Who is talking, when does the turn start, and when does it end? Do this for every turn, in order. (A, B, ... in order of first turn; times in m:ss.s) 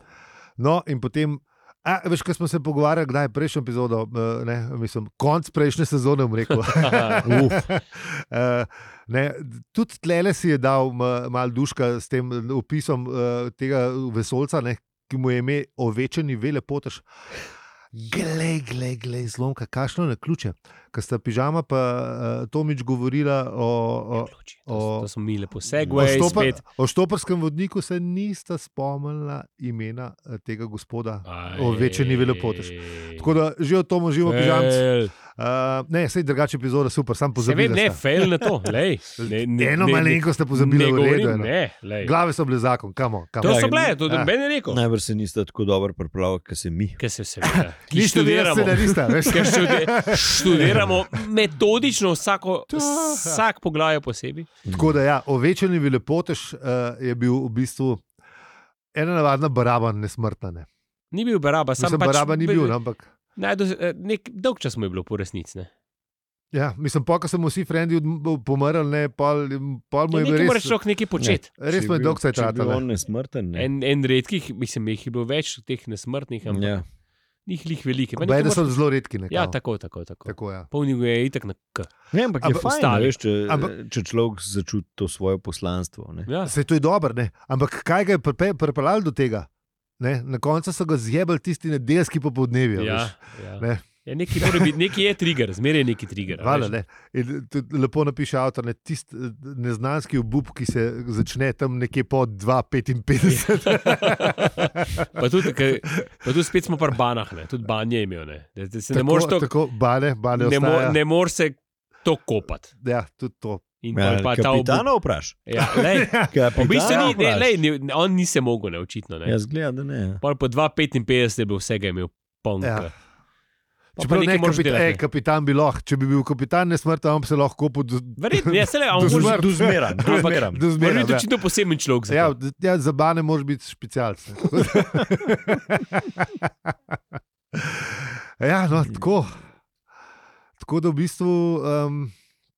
0:00.6-0:17.0 A
0:06.6-0:07.5 B
0:07.2-0:07.6 C
0:17.9-0:25.1 A
0:24.2-0:26.6 B
0:25.8-0:26.5 C
0:25.9-0:38.5 A
0:31.2-0:33.3 B
0:34.2-0:35.1 B
0:37.4-0:42.1 B
0:39.2-0:44.3 A
0:43.4-0:44.8 B
0:43.4-0:44.0 C
0:44.7-0:47.0 C
0:47.0-0:54.5 B
0:47.5-0:51.0 A
0:52.7-0:53.4 A
0:54.7-0:58.0 A
0:58.9-1:00.7 A
1:01.1-1:02.8 B
1:01.8-1:03.1 A
1:03.4-1:05.7 B
1:06.5-1:10.8 A
1:10.1-1:11.5 B
1:11.2-1:13.7 C
1:11.6-1:12.8 A
1:13.5-1:16.8 B
1:16.5-1:16.8 C
1:17.4-1:18.8 B
1:18.2-1:19.6 A
1:19.3-1:21.9 B
1:20.2-1:20.7 A
1:22.1-1:26.3 C
1:22.4-1:22.7 A
1:22.5-1:23.1 B
1:23.4-1:23.7 A
1:26.3-1:26.5 B
1:26.4-1:29.5 A
1:30.0-1:34.7 A
1:32.8-1:36.7 B
1:36.4-1:45.2 A
1:43.2-1:49.5 B
1:45.9-1:46.2 A
1:48.9-1:51.0 A
1:50.3-1:52.7 B
1:52.8-1:53.6 A
1:53.8-1:54.9 B
1:53.9-1:55.4 C
1:55.4-1:59.4 B
1:55.6-1:57.1 A
1:56.3-1:57.6 C
1:59.2-2:00.2 C
2:00.2-2:02.9 B
2:02.6-2:02.9 A
2:04.0-2:05.0 B
2:04.0-2:11.3 A
2:08.2-2:12.3 B
2:09.0-2:10.6 C
2:12.1-2:16.5 A
2:14.9-2:15.3 C
2:17.5-2:19.4 A
2:20.6-2:22.1 A